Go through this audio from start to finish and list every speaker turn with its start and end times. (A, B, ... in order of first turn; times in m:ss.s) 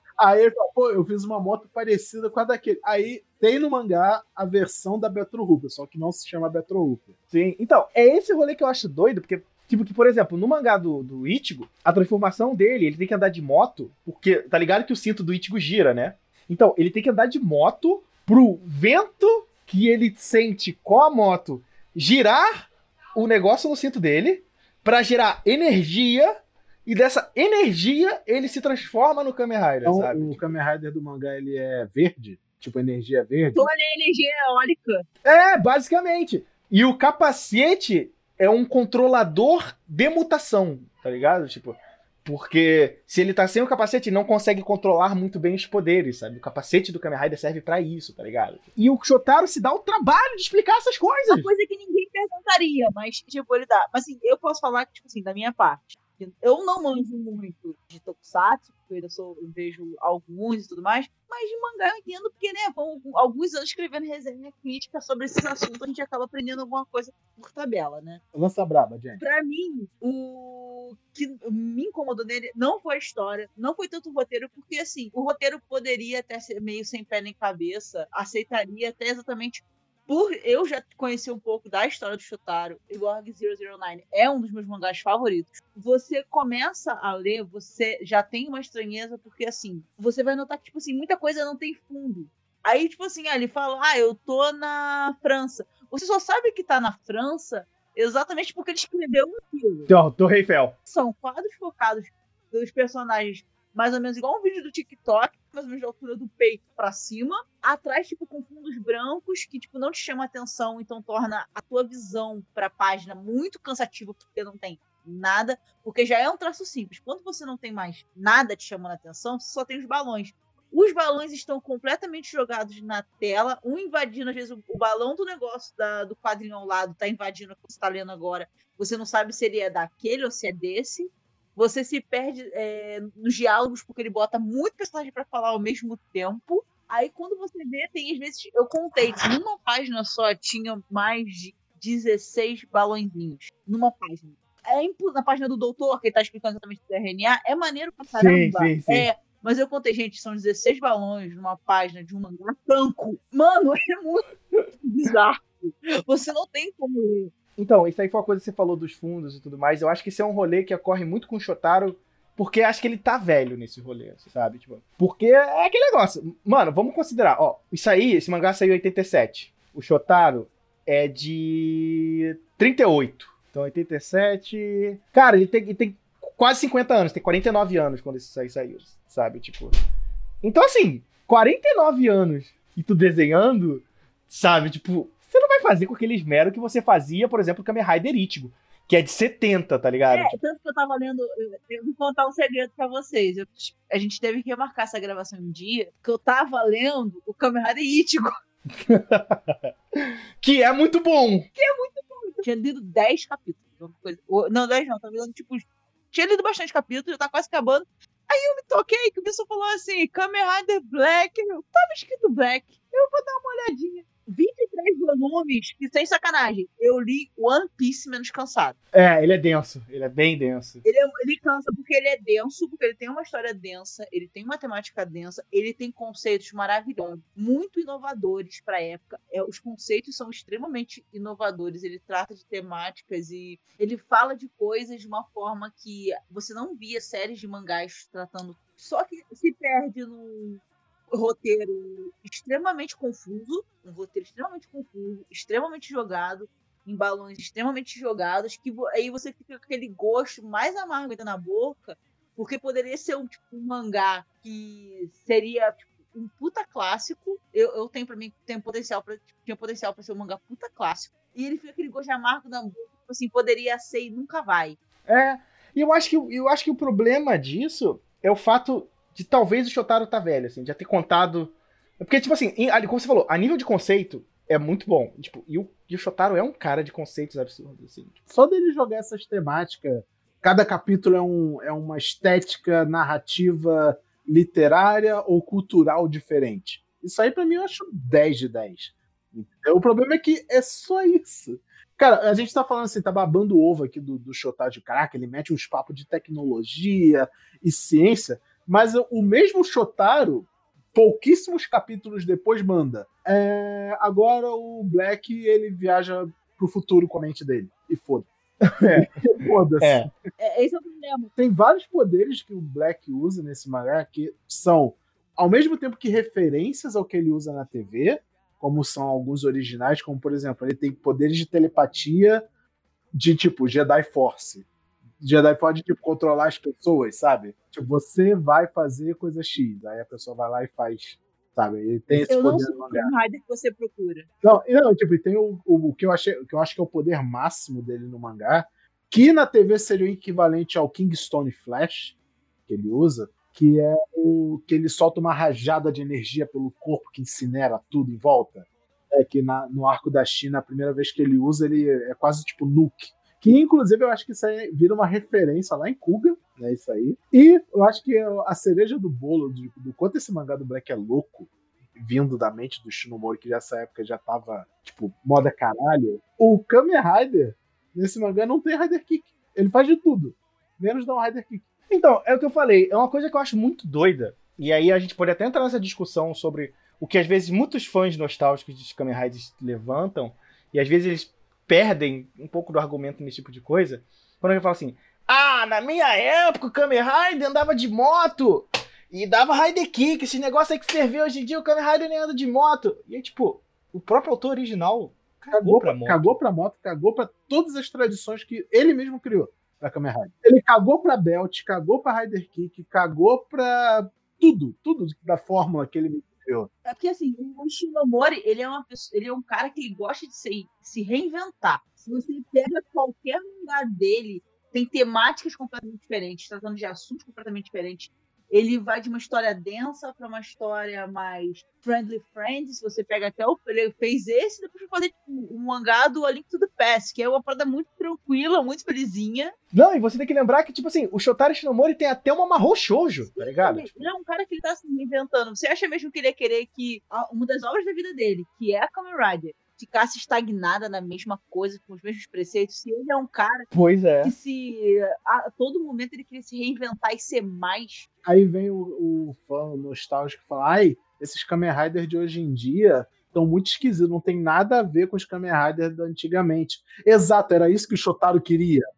0:00.2-0:07.1 A
0:07.3-0:30.5 B
0:29.8-0:33.7 A
0:33.5-0:35.0 C
0:35.2-0:51.5 B
0:51.3-1:08.2 C
1:08.3-1:09.2 A
1:09.2-1:39.9 C
1:39.9-1:40.7 B
1:40.9-2:34.2 C
2:28.1-2:29.1 B
2:34.8-2:37.3 C
2:37.6-2:59.7 B
3:00.4-3:10.4 B
3:10.1-3:18.3 C
3:18.8-3:21.5 B
3:21.6-3:38.8 C
3:38.9-3:40.8 B
3:40.8-4:24.8 C
4:25.1-4:38.2 B
4:38.3-5:08.3 A
5:08.6-5:09.3 B
5:08.9-5:10.1 A
5:09.8-5:10.1 B
5:10.4-5:11.3 C
5:11.4-5:22.5 A
5:23.1-5:24.7 A
5:25.2-5:33.1 A
5:32.3-5:34.3 C
5:34.4-5:42.1 A
5:42.7-6:11.6 A
6:11.9-6:36.4 B
6:35.5-6:46.7 A
6:46.8-7:09.5 C
7:09.7-7:14.1 B
7:13.3-7:23.7 C
7:23.7-7:24.3 B
7:24.2-7:28.1 C
7:28.2-7:38.8 A